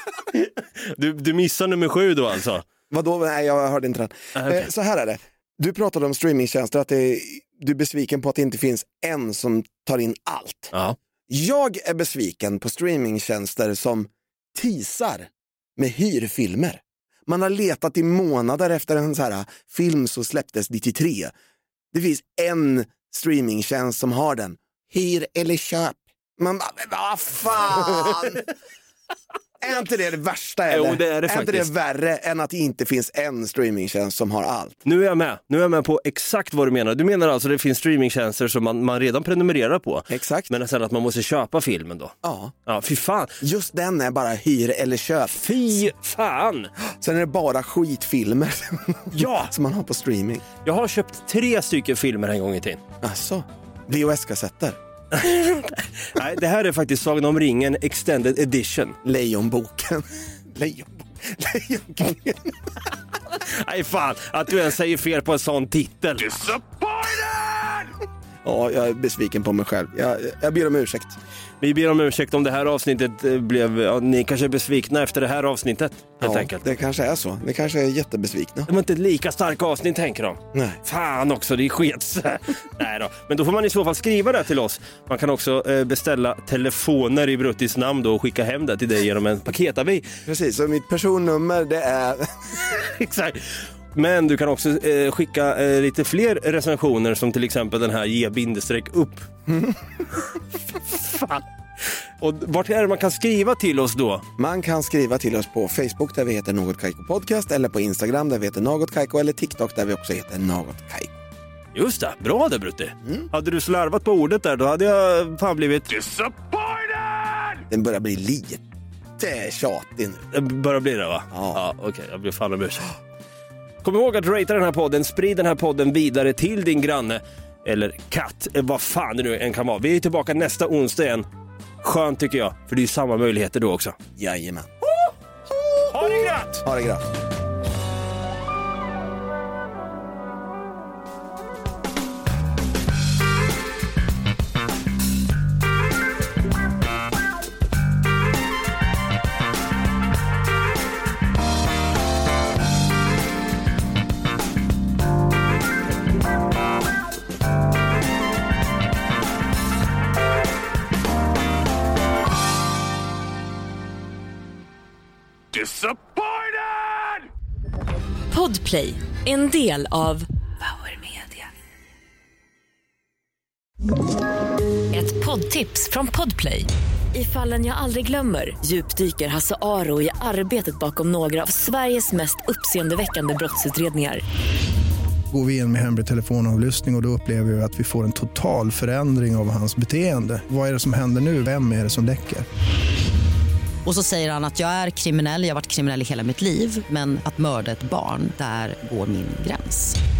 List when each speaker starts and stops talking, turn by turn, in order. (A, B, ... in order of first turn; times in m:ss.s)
0:00.3-0:02.6 A
0:02.9-0:10.7 B
0:04.4-0:04.7 A
0:11.3-0:21.3 B
0:21.9-0:28.4 B
0:29.6-0:34.8 B
0:30.7-0:31.7 A
0:34.8-0:42.1 A
0:40.1-0:40.5 B
0:42.2-0:42.5 B
0:42.6-0:43.4 A
0:43.4-0:45.6 B
0:45.3-0:46.7 A
0:47.0-0:50.4 B
0:49.1-0:49.5 A
0:50.6-0:52.8 A
0:53.0-0:54.8 B
0:55.1-0:59.0 A
0:59.0-1:02.7 B
1:03.4-1:06.6 A
1:08.4-1:11.2 B
1:11.6-1:16.7 A
1:16.2-1:18.7 B
1:18.7-1:30.1 A
1:20.5-1:20.8 B
1:30.2-1:32.6 B
1:32.7-1:39.3 A
1:39.5-1:39.8 B
1:40.9-1:41.4 A
1:42.2-1:44.2 A
1:44.4-1:51.1 B
1:51.7-1:56.0 A
1:57.7-1:58.6 B
1:59.2-2:00.3 B
2:00.3-2:02.9 A
2:01.3-2:01.6 B
2:03.8-2:11.2 A
2:11.8-2:14.0 A
2:14.2-2:14.7 B
2:15.7-2:16.6 A
2:16.6-2:17.0 B
2:48.3-2:51.4 C
2:54.9-3:04.2 C
3:05.3-3:12.4 D
3:13.8-3:20.0 E